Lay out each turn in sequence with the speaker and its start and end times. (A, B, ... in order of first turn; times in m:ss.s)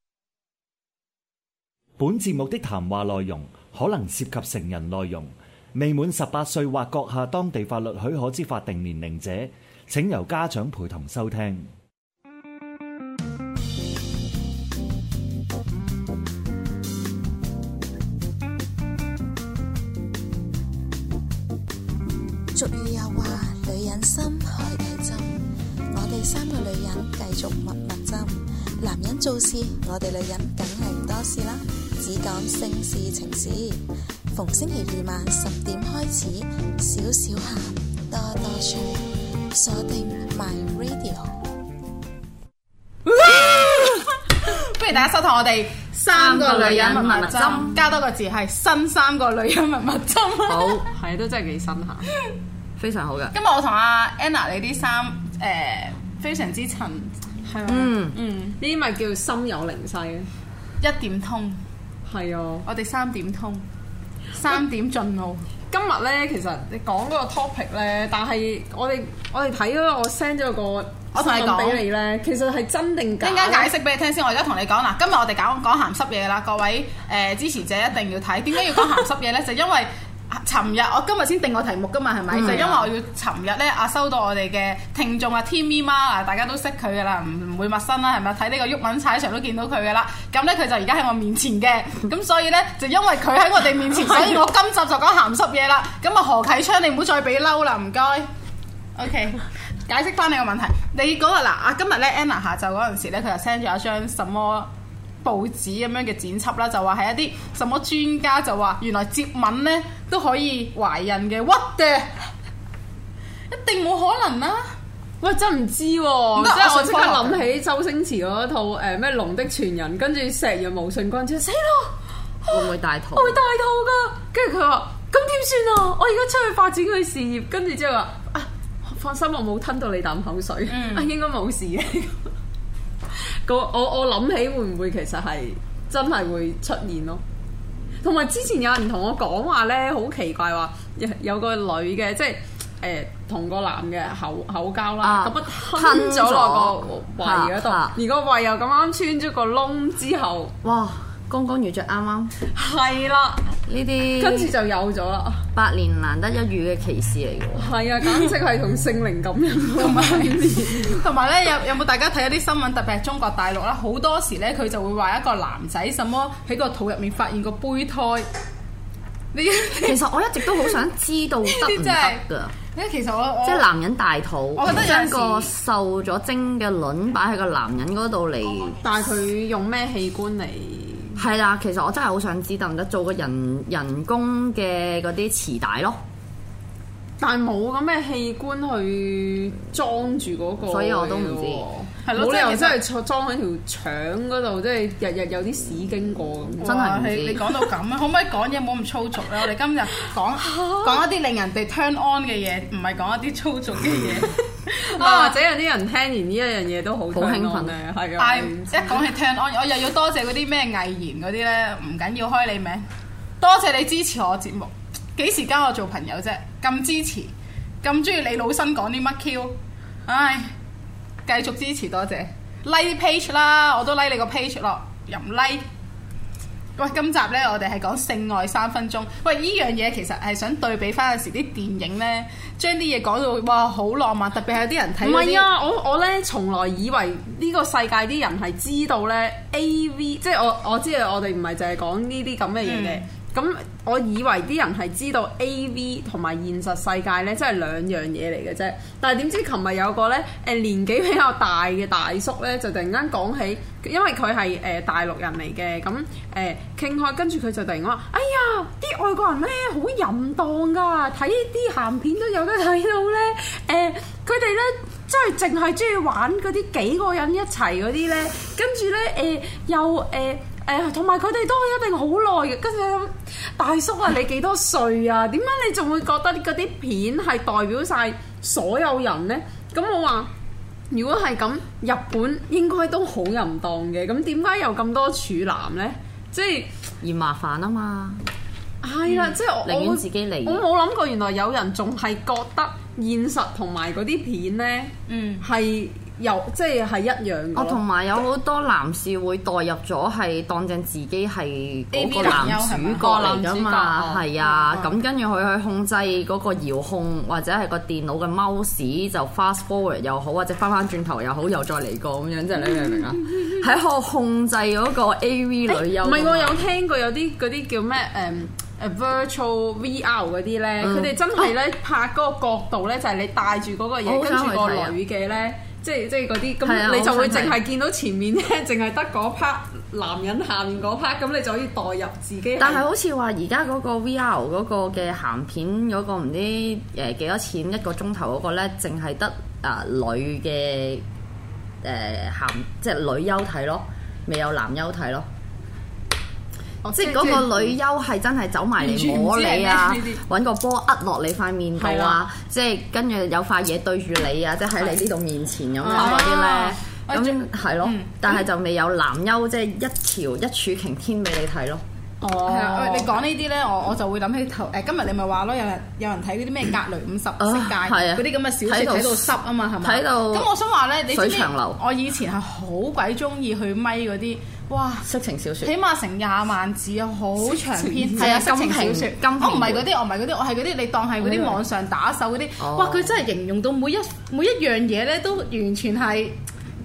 0:02.0-0:11.7 A
0:22.5-0:41.4 B
0:43.2-0:44.0 C
0:44.4-0:50.8 D
0:46.1-0:47.8 E
0:50.5-0:50.8 E
0:50.9-0:52.1 C
0:52.8-0:53.3 E
0:53.3-0:57.2 D
0:57.5-0:57.8 C
0:57.7-0:58.2 E
0:57.7-0:58.6 D
0:58.6-1:00.3 C
1:00.8-1:01.6 D
1:02.1-1:02.7 C
1:02.7-1:03.6 D
1:04.4-1:05.4 D
1:05.7-1:13.7 C
1:11.1-1:11.8 D
1:13.2-1:38.3 D
1:22.3-1:22.7 E
1:39.0-1:44.7 D
1:45.2-1:52.3 D
1:53.5-1:54.7 D
1:55.2-2:12.3 C
1:56.4-1:57.4 D
2:02.5-2:03.4 E
2:10.7-2:11.1 D
2:13.4-2:17.2 C
2:18.0-2:30.5 C
2:25.0-2:28.0 E
2:30.6-2:32.3 E
2:32.5-2:33.5 C
2:33.7-2:34.5 E
2:34.2-2:35.4 C
2:35.6-2:37.7 E
2:37.6-2:41.0 C
2:39.8-2:48.3 D
2:49.3-2:50.7 D
2:49.8-2:52.5 E
2:51.4-2:53.7 D
2:53.4-2:58.8 E
2:54.6-2:55.5 D
2:58.8-3:01.2 C
3:01.2-3:06.0 E
3:07.2-3:16.8 C
3:10.7-3:11.7 E
3:12.0-3:12.8 D
3:16.6-3:24.3 D
3:16.6-3:17.4 E
3:20.4-3:21.0 C
3:24.8-3:29.0 C
3:25.0-3:25.4 D
3:27.1-3:27.8 E
3:28.2-3:32.9 D
3:33.4-3:40.5 D
3:41.3-3:45.6 D
3:46.8-3:55.5 D
3:55.0-4:40.3 C
4:02.6-4:03.0 D
4:40.9-4:46.7 C
4:47.0-4:48.2 E
4:48.8-4:57.8 C
4:49.6-4:50.6 E
4:55.1-4:55.4 D
4:57.6-5:16.6 E
5:01.9-5:03.3 D
5:03.0-5:04.3 C
5:04.4-5:04.9 D
5:15.7-5:32.8 C
5:20.8-5:21.2 E
5:24.0-5:25.0 E
5:26.6-5:27.6 E
5:32.6-5:41.0 E
5:41.8-5:45.3 E
5:46.9-5:47.4 C
5:46.9-5:47.5 D
5:46.9-6:01.8 E
5:48.8-5:50.2 D
5:51.8-5:52.2 C
5:55.8-5:58.4 D
5:56.0-5:56.2 C
6:02.2-6:03.1 C
6:02.4-6:15.1 D
6:07.4-6:10.5 E
6:11.1-6:11.8 E
6:15.0-6:15.7 E
6:15.6-6:26.4 D
6:18.2-6:19.9 E
6:21.2-6:21.6 E
6:22.6-6:23.1 E